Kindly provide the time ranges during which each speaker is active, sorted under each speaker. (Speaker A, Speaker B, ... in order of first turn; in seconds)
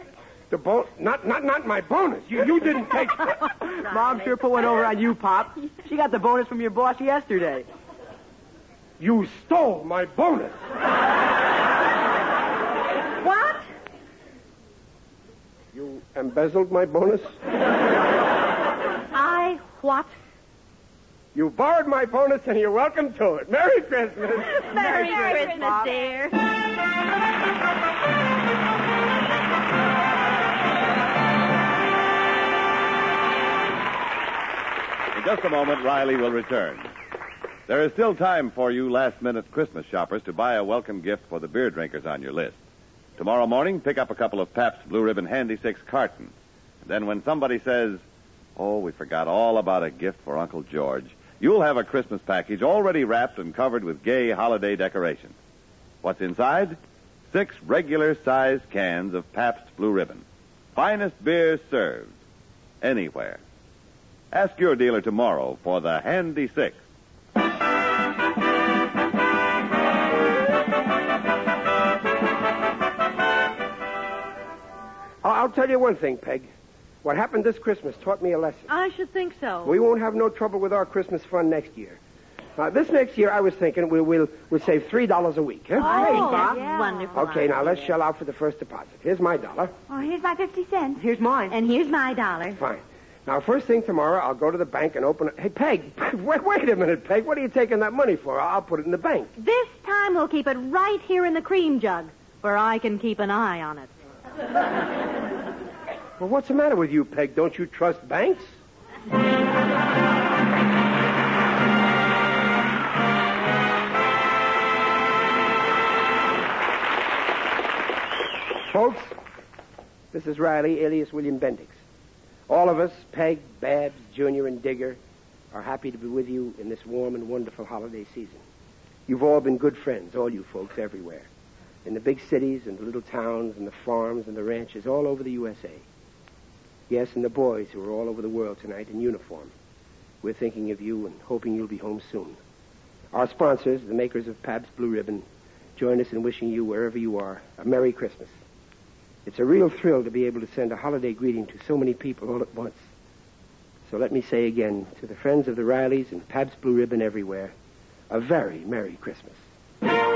Speaker A: 0.5-3.5, 9.0-10.6, 15.7-17.4, 21.3-24.7, 75.2-76.5, 77.0-78.7, 79.6-82.0, 82.6-86.2, 87.1-89.7, 92.5-99.3, 106.2-108.5, 118.6-119.1, 120.1-121.8, 122.5-125.0, 125.5-128.4, 129.1-131.3, 131.8-135.8, 136.9-139.5, 140.2-142.4, 143.1-145.2, 145.8-148.4, 149.2-152.9, 153.8-157.5, 158.1-159.4
Speaker B: 3.7-7.7, 24.7-25.9, 85.9-86.6, 91.0-91.5
Speaker C: 3.7-4.6, 13.2-13.7, 19.1-20.1, 24.4-26.4, 78.7-79.8, 85.8-88.0, 91.5-92.6, 99.4-103.9
Speaker D: 24.6-26.2, 85.8-87.3, 89.9-91.0
Speaker E: 35.1-36.9, 37.7-42.6, 43.2-48.0, 48.5-55.3, 56.0-56.8, 57.3-60.2, 60.7-62.1, 62.8-63.4, 64.3-66.8